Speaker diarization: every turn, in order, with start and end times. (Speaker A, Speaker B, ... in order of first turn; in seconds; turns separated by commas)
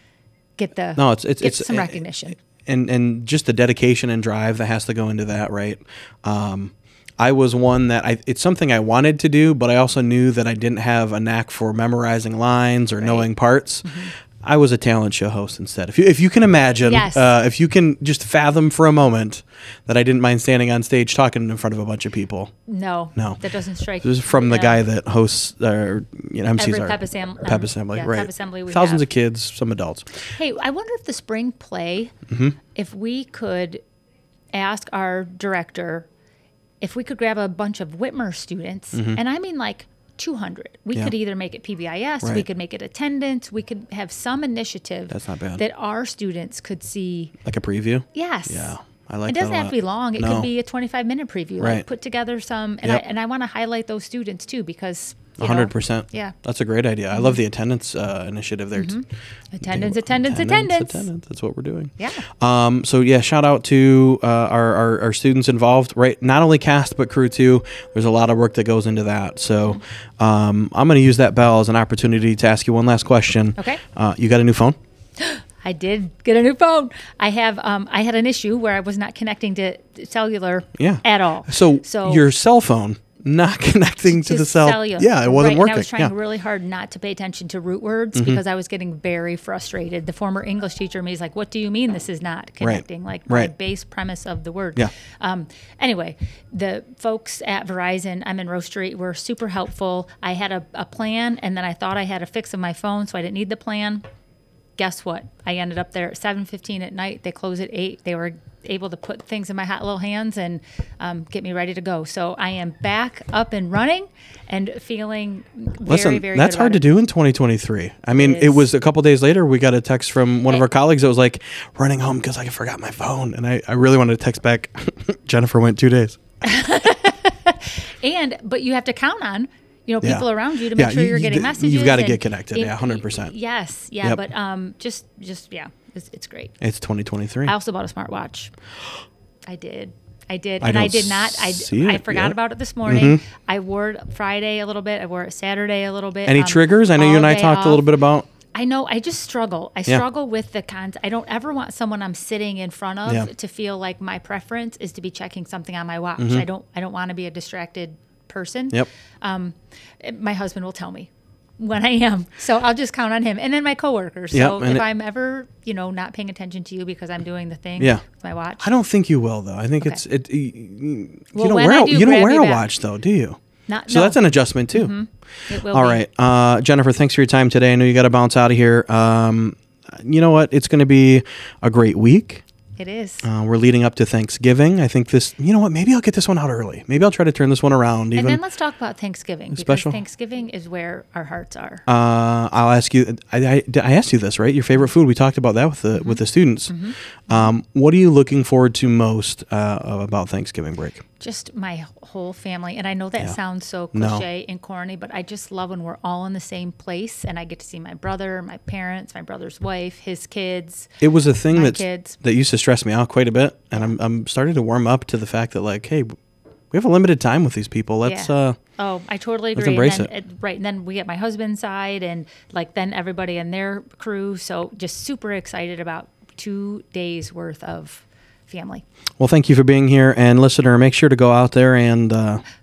Speaker A: 0.6-2.4, Speaker B: 1.0-2.0, Speaker B: 2.6-22.5, Speaker A: 13.0-13.3, Speaker A: 13.8-14.1, Speaker A: 16.8-17.3, Speaker A: 22.7-24.8, Speaker B: 23.1-23.4, Speaker B: 24.0-30.1, Speaker A: 26.6-29.1, Speaker A: 30.2-32.1, Speaker B: 32.3-32.6, Speaker A: 32.7-33.8, Speaker A: 34.5-36.1, Speaker A: 36.8-47.3, Speaker B: 38.9-39.2, Speaker B: 45.1-45.6, Speaker B: 47.4-50.5, Speaker A: 48.1-48.8, Speaker A: 49.3-56.3, Speaker B: 51.6-51.8, Speaker B: 55.4-59.0, Speaker A: 57.1-57.4, Speaker A: 58.7-61.1, Speaker B: 59.6-74.8, Speaker A: 62.0-62.3, Speaker A: 73.6-73.8, Speaker A: 75.2-82.3, Speaker B: 80.8-86.1, Speaker A: 84.1-104.0, Speaker B: 88.1-88.4, Speaker B: 92.6-93.5, Speaker A: 104.8-116.9, Speaker B: 115.8-126.2, Speaker A: 118.1-118.7, Speaker A: 126.4-136.5, Speaker B: 130.0-133.3, Speaker B: 136.6-137.5, Speaker A: 137.4-138.5, Speaker A: 139.5-147.9, Speaker B: 140.6-143.2, Speaker B: 146.2-148.3, Speaker A: 148.5-168.7, Speaker B: 156.2-156.4, Speaker B: 164.3-164.9, Speaker B: 167.8-168.0, Speaker B: 168.6-174.9, Speaker A: 171.3-172.7, Speaker A: 173.7-174.2, Speaker A: 174.7-176.0, Speaker B: 175.6-182.4, Speaker A: 182.8-183.2, Speaker B: 183.2-188.4, Speaker A: 188.1-191.8, Speaker B: 189.5-190.0, Speaker B: 191.9-201.0, Speaker A: 195.9-197.5, Speaker A: 201.2-210.9, Speaker B: 203.9-204.2, Speaker B: 211.0-216.1, Speaker A: 211.5-212.2, Speaker B: 216.7-218.6, Speaker A: 218.0-228.8, Speaker B: 219.5-220.1, Speaker B: 229.2-232.4